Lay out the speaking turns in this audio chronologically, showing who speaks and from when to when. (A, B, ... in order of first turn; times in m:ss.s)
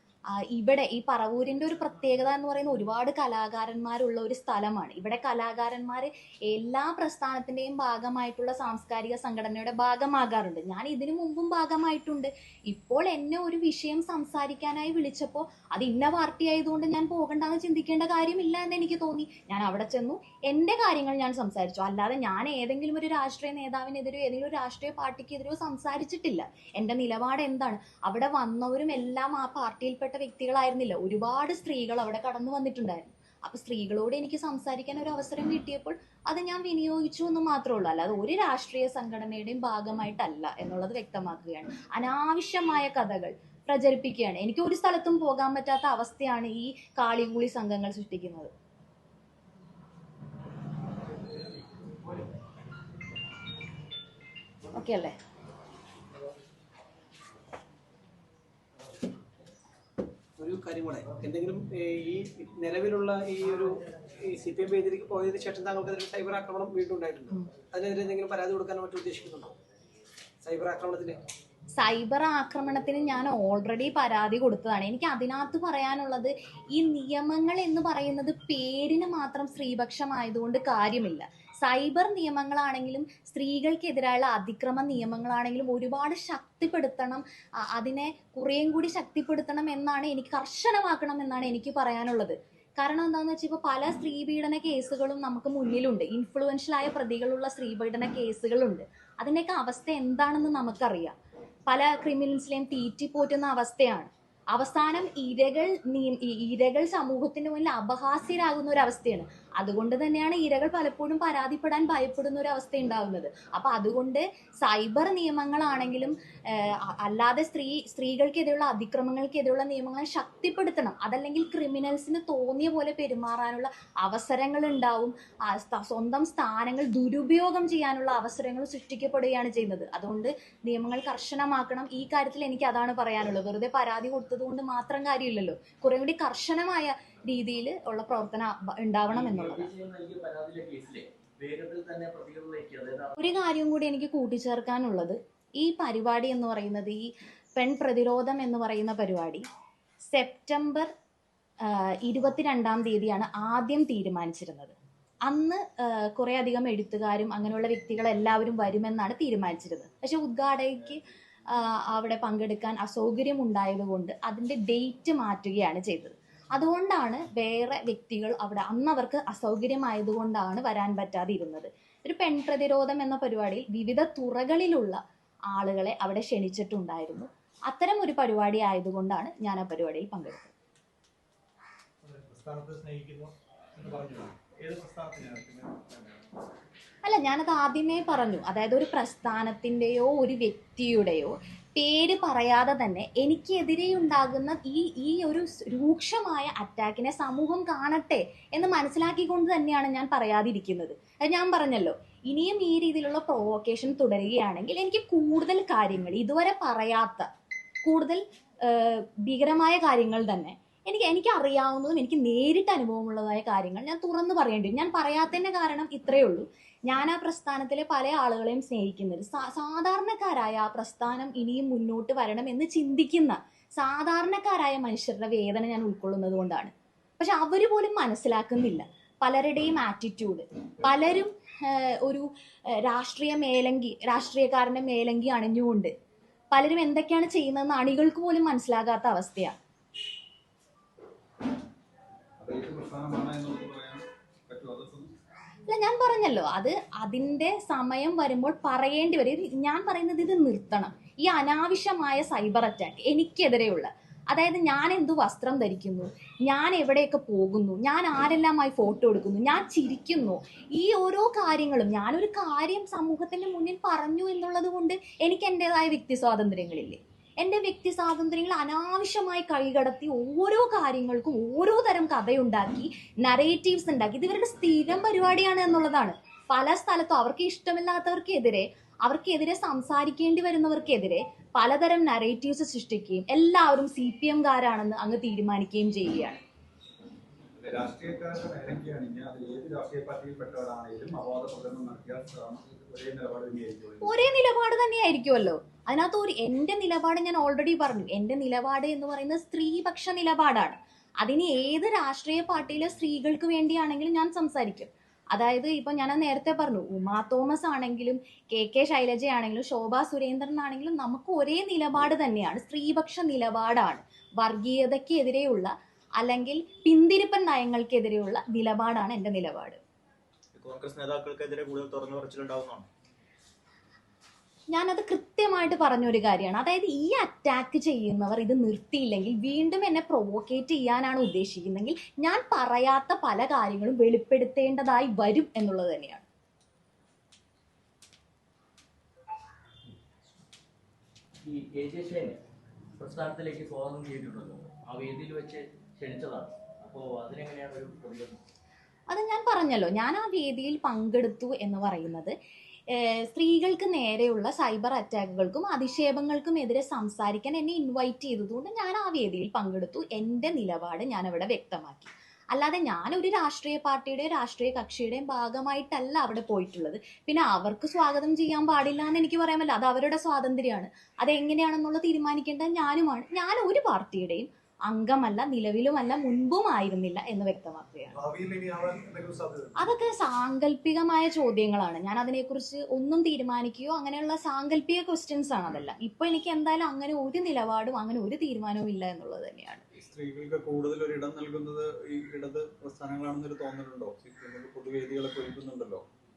0:00.3-0:48.5 A
0:54.7-0:55.1 A
1:00.4-1:09.6 B
1:10.4-1:11.2 B
1:11.8-1:41.1 A
1:41.7-2:19.7 A
2:19.1-2:23.2 C
2:23.2-2:29.4 A
2:30.1-2:30.9 A
2:31.6-2:34.8 A
2:35.3-3:00.5 A
3:03.8-3:05.8 D
3:07.0-3:27.3 A
3:27.8-3:55.9 A
3:56.5-3:59.6 A
4:02.4-4:05.1 D
4:05.7-4:46.4 A
4:47.6-4:54.1 D
4:54.0-5:19.8 A
5:20.6-5:22.9 E
5:24.7-5:36.3 A
5:41.4-5:42.4 C
5:43.0-5:48.4 C
5:49.1-5:52.3 A
5:52.9-6:18.1 A
6:18.1-6:19.8 D
6:19.8-6:29.8 A
6:30.0-6:36.0 D